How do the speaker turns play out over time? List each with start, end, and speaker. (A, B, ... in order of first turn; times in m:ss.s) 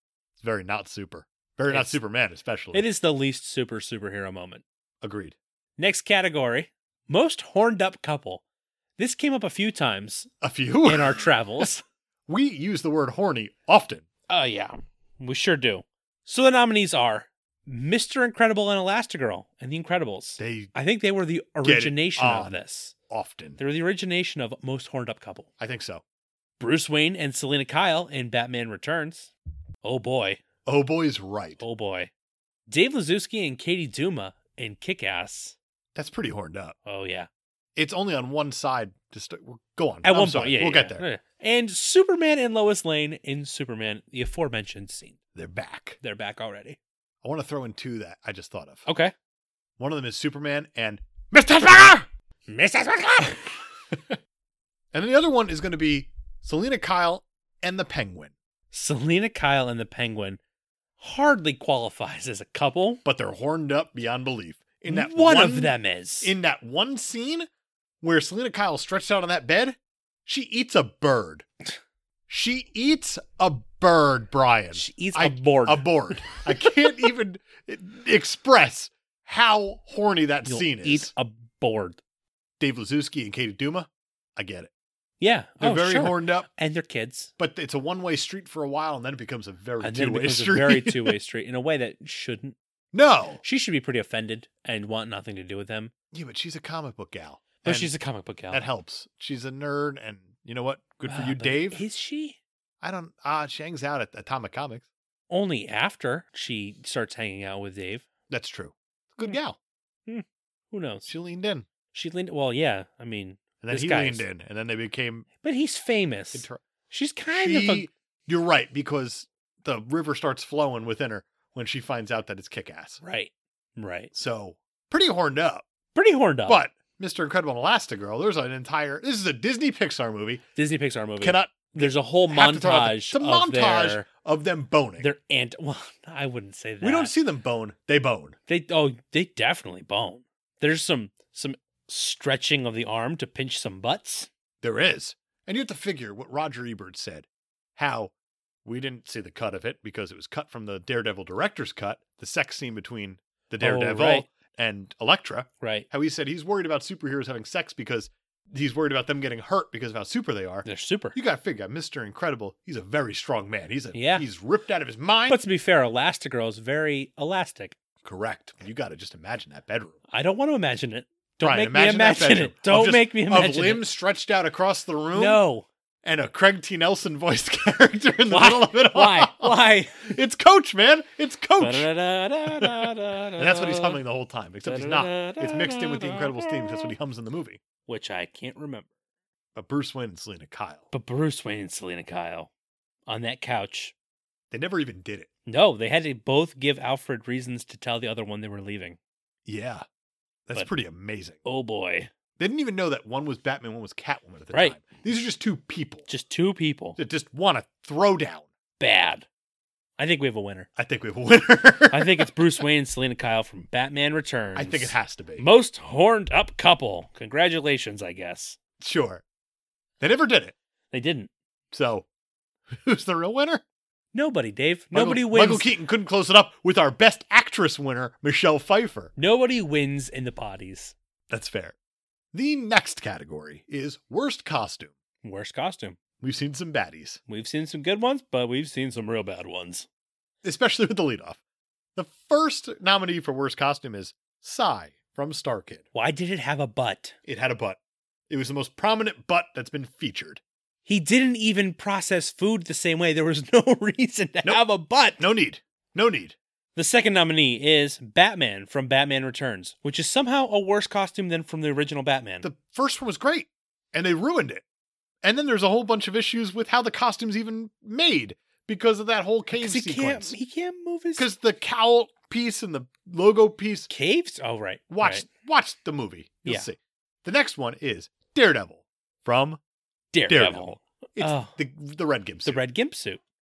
0:00.4-0:02.9 A
0:01.7-0:02.0 B
0:02.7-0:04.6 B
0:05.0-0:05.4 A
0:05.8-0:08.4 B
0:09.0-0:10.3 B
0:10.4-0:11.7 A
0:10.8-0:11.8 B
0:12.3-0:14.0 A
0:14.3-0:22.9 B
0:20.4-0:20.7 A
0:21.6-0:22.6 A
0:23.1-0:23.6 A
0:23.6-0:25.5 B
0:25.6-0:26.0 A
0:26.6-0:30.4 B
0:30.6-0:31.6 A
0:31.6-0:32.1 B
0:32.7-0:35.6 B
0:35.9-0:36.8 A
0:36.8-0:37.3 B
0:37.8-0:41.0 A
0:40.0-0:45.2 B
0:45.3-0:46.0 A
0:46.0-0:46.8 B
0:47.2-0:48.9 A
0:48.8-0:49.1 B
0:49.8-0:52.1 A
0:52.5-0:53.6 B
0:53.9-0:54.2 A
0:54.9-0:58.3 A
0:58.7-1:00.4 B
1:01.0-1:03.0 B
1:03.0-1:07.5 A
1:04.9-1:06.3 B
1:08.0-1:11.4 A
1:12.3-1:21.1 A
1:14.7-1:17.0 B
1:20.4-1:22.0 B
1:22.6-1:24.7 A
1:25.2-1:27.3 B
1:25.6-1:26.5 A
1:27.4-1:31.2 A
1:29.8-1:32.6 B
1:32.9-1:33.4 A
1:33.4-1:35.9 B
1:36.1-1:37.9 A
1:37.6-1:38.6 B
1:38.5-1:41.8 A
1:41.1-1:42.4 B
1:42.8-1:44.9 A
1:45.3-1:48.1 B
1:48.3-1:49.6 A
1:50.1-1:51.1 B
1:51.1-1:51.7 A
1:51.9-1:54.2 B
1:53.6-1:55.3 A
1:55.4-1:57.9 B
1:56.3-1:56.6 A
1:57.3-2:03.0 A
2:03.0-2:04.1 B
2:04.1-2:05.6 A
2:05.9-2:06.6 B
2:06.5-2:10.4 A
2:10.6-2:14.1 B
2:11.2-2:15.1 A
2:15.0-2:17.1 B
2:16.8-2:18.4 A
2:18.5-2:24.3 B
2:24.6-2:28.1 A
2:28.6-2:45.4 A
2:33.6-2:34.3 B
2:35.6-2:35.9 B
2:40.6-2:41.2 B
2:43.9-2:44.2 B
2:45.3-2:47.8 B
2:48.0-2:50.0 A
2:50.1-2:53.8 B
2:51.4-2:55.4 A
2:55.1-2:55.7 B
2:56.0-3:01.9 A
2:58.3-3:00.2 B
3:01.6-3:04.0 B
3:02.5-3:07.6 A
3:04.6-3:06.9 B
3:07.8-3:08.9 B
3:09.5-3:10.8 A
3:10.9-3:12.5 B
3:13.1-3:13.9 B
3:14.5-3:15.3 A
3:15.4-3:19.0 B
3:19.4-3:19.8 A
3:20.5-3:21.4 A
3:21.4-3:22.1 B
3:22.4-3:26.1 A
3:24.5-3:24.8 B
3:26.1-3:27.0 B
3:27.0-3:28.5 A
3:28.8-3:29.3 B
3:30.0-3:30.7 B
3:30.8-3:32.3 A
3:31.9-3:38.6 B
3:34.5-3:35.5 A
3:38.8-3:39.2 A
3:40.0-3:40.5 A
3:40.9-3:41.3 B
3:41.7-3:42.1 A
3:42.7-3:43.6 A
3:44.1-3:45.7 B
3:44.9-3:49.1 A
3:49.2-3:50.9 B
3:51.3-3:51.7 A
3:52.3-3:54.9 A
3:55.2-3:56.0 B
3:56.2-3:57.2 A
3:57.3-3:59.9 B
4:00.4-4:01.4 A
4:02.0-4:05.8 A
4:05.9-4:07.2 B
4:07.2-4:07.8 A
4:08.3-4:10.4 A
4:10.8-4:15.2 B
4:15.2-4:16.4 A
4:16.7-4:22.5 B
4:22.4-4:24.6 A
4:25.2-4:30.3 A
4:29.5-4:31.3 B
4:31.2-4:33.9 A
4:33.9-4:35.2 B
4:34.9-4:39.6 A
4:40.1-4:41.5 B
4:40.3-4:42.6 A
4:42.4-4:43.2 B